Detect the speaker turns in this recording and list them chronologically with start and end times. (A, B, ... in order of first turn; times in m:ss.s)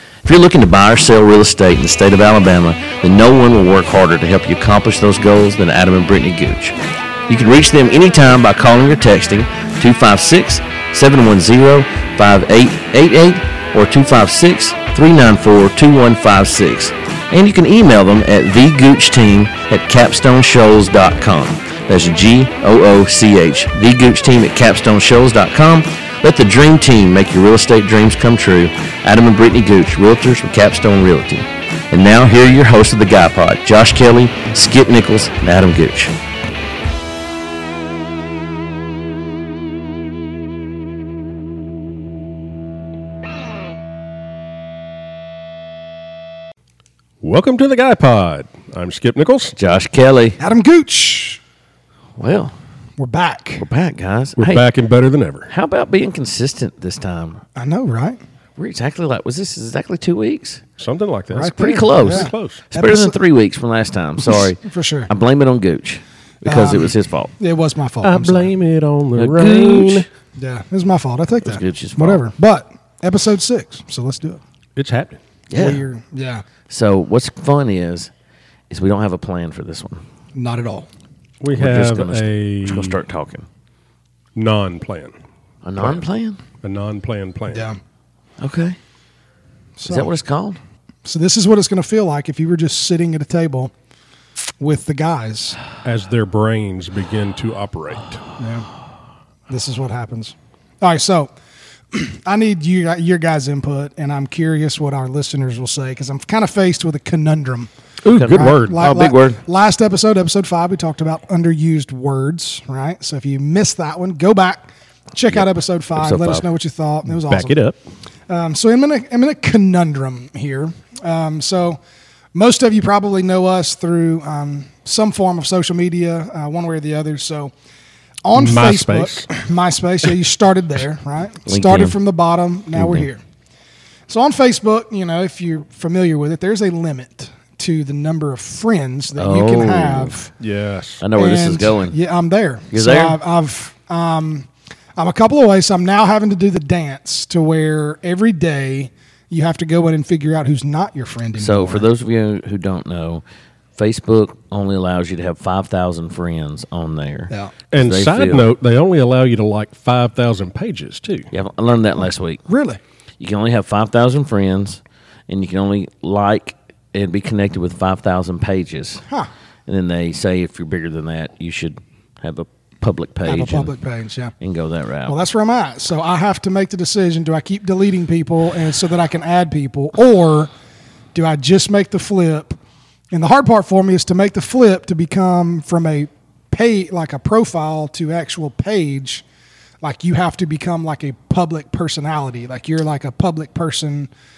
0:00.2-0:06.7 A
0:07.3-0:36.1 A
0:47.2-0:49.5 B
0:49.6-0:50.4 A
0:50.4-0:51.4 C
0:52.2-0:52.5 A
0:53.0-0:53.6 C
0:53.6-0:54.6 A
0:54.4-0:55.5 B
0:55.5-0:57.4 A
0:57.5-0:58.2 C
0:58.6-1:00.6 A
1:00.8-1:02.6 B
1:01.3-1:03.2 C
1:01.5-1:07.3 A
1:04.2-1:05.1 C
1:06.4-1:08.5 C
1:08.0-1:10.0 B
1:09.2-1:10.1 A
1:10.4-1:14.4 C
1:11.4-1:12.2 A
1:14.8-1:15.2 B
1:15.5-1:15.8 A
1:15.5-1:16.4 C
1:16.7-1:18.1 A
1:18.7-1:20.0 A
1:20.3-1:20.9 C
1:21.4-1:23.0 B
1:21.5-1:23.5 A
1:24.3-1:25.1 B
1:25.6-1:26.4 A
1:26.6-1:27.6 B
1:27.5-1:27.8 C
1:28.4-1:28.8 A
1:29.8-1:30.1 C
1:29.8-1:30.6 A
1:31.0-1:33.7 C
1:34.6-1:35.6 C
1:35.8-1:38.2 B
1:38.4-1:38.7 C
1:39.5-1:41.3 C
1:41.9-1:47.7 C
1:48.0-1:48.8 B
1:48.0-1:49.4 A
1:48.3-1:57.6 C
1:55.3-1:56.4 A
1:57.1-1:57.8 B
1:58.3-2:01.8 C
2:02.3-2:07.5 C
2:08.2-2:13.2 C
2:08.3-2:09.3 B
2:11.4-2:12.0 A
2:12.7-2:13.0 A
2:14.1-2:20.3 C
2:19.2-2:20.1 A
2:20.4-2:21.0 B
2:21.0-2:22.0 A
2:21.1-2:31.9 C
2:22.7-2:23.2 A
2:31.4-2:33.2 A
2:33.8-2:38.5 A
2:37.7-2:41.3 B
2:41.3-2:42.4 A
2:42.5-2:42.8 C
2:43.2-2:49.0 A
2:49.7-2:53.7 A
2:53.2-2:54.3 C
2:54.4-2:55.2 A
2:55.1-3:00.5 C
3:01.1-3:02.6 C
3:03.1-3:09.2 C
3:09.8-3:14.1 C